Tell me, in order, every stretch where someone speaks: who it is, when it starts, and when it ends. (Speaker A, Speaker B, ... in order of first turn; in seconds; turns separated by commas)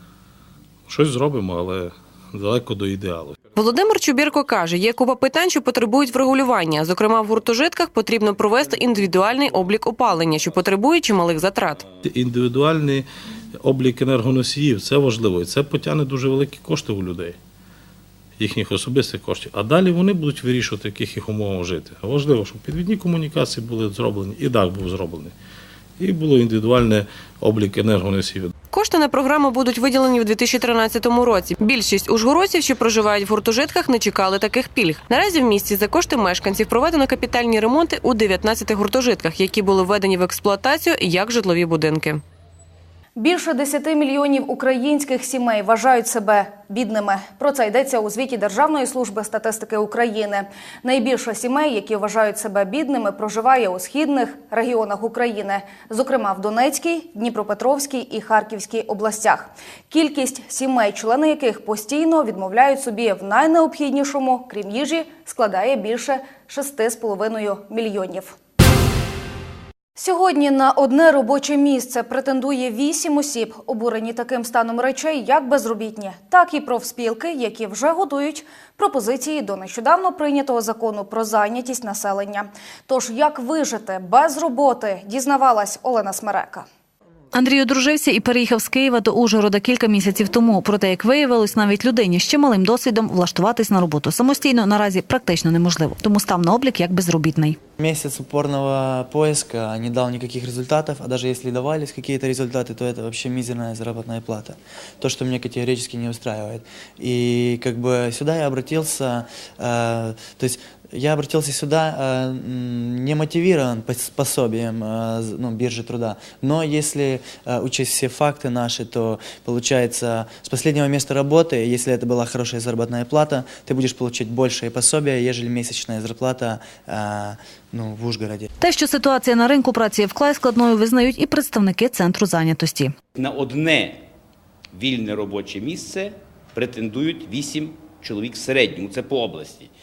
Speaker A: 0.9-3.4, Speaker B: 3.6-11.8, Speaker A: 12.0-13.1, Speaker A: 13.6-17.4, Speaker A: 18.4-25.3, Speaker A: 26.0-28.5, Speaker B: 28.7-42.2, Speaker C: 43.1-68.3, Speaker C: 70.0-86.7, Speaker D: 87.3-97.6, Speaker E: 97.8-128.5, Speaker D: 128.6-132.9, Speaker F: 133.2-134.0, Speaker F: 134.7-139.7